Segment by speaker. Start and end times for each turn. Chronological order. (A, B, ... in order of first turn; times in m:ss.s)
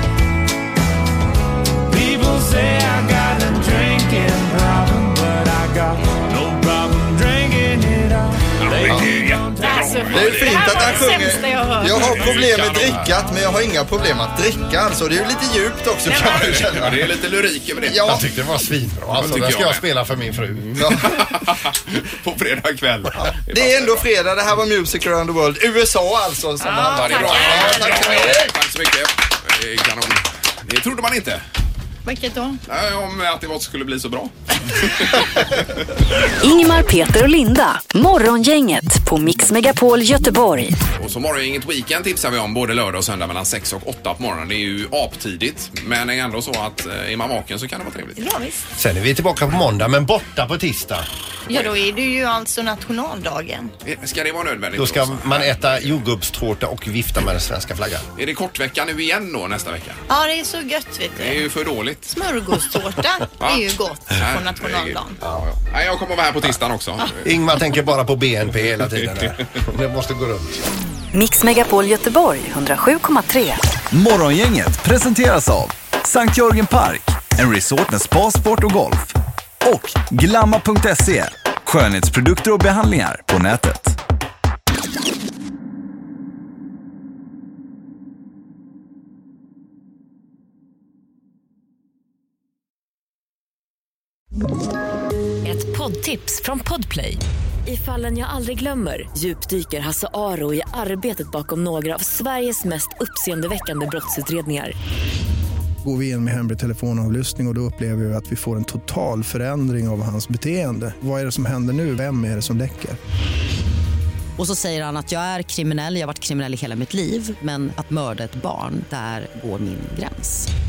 0:01.9-0:10.6 A
0:08.6-0:11.2 B
0:09.6-0:12.1 C
0:10.1-0:17.2 D
0:11.9-0:13.0 B
0:16.1-0:18.2 B
0:17.8-0:18.2 D
0:17.9-0:20.9 E
0:19.2-0:19.8 B
0:20.6-0:24.0 B
0:20.8-0:21.2 D
0:23.5-0:28.5 D
0:26.6-0:28.3 C
0:26.8-0:31.4 B
0:32.0-0:32.6 C
0:32.7-0:35.2 B
0:36.4-0:40.8 F
0:41.0-0:48.2 B
0:48.2-0:48.6 C
0:48.8-0:51.0 E
0:51.5-0:53.7 C
0:53.8-0:56.0 B
0:54.7-0:58.0 E
0:58.2-1:00.0 B
1:00.1-1:01.4 C
1:01.2-1:02.1 B
1:02.1-1:05.2 C
1:03.4-1:07.2 B
1:07.2-1:10.6 E
1:08.8-1:09.4 B
1:11.1-1:13.6 F
1:13.9-1:24.0 G
1:35.5-1:37.2 F
1:35.9-1:36.4 H
1:37.7-1:44.7 H
1:39.1-1:40.0 F
1:40.8-1:43.3 F
1:44.0-1:44.7 F
1:45.8-1:53.0 I
1:54.4-2:00.5 J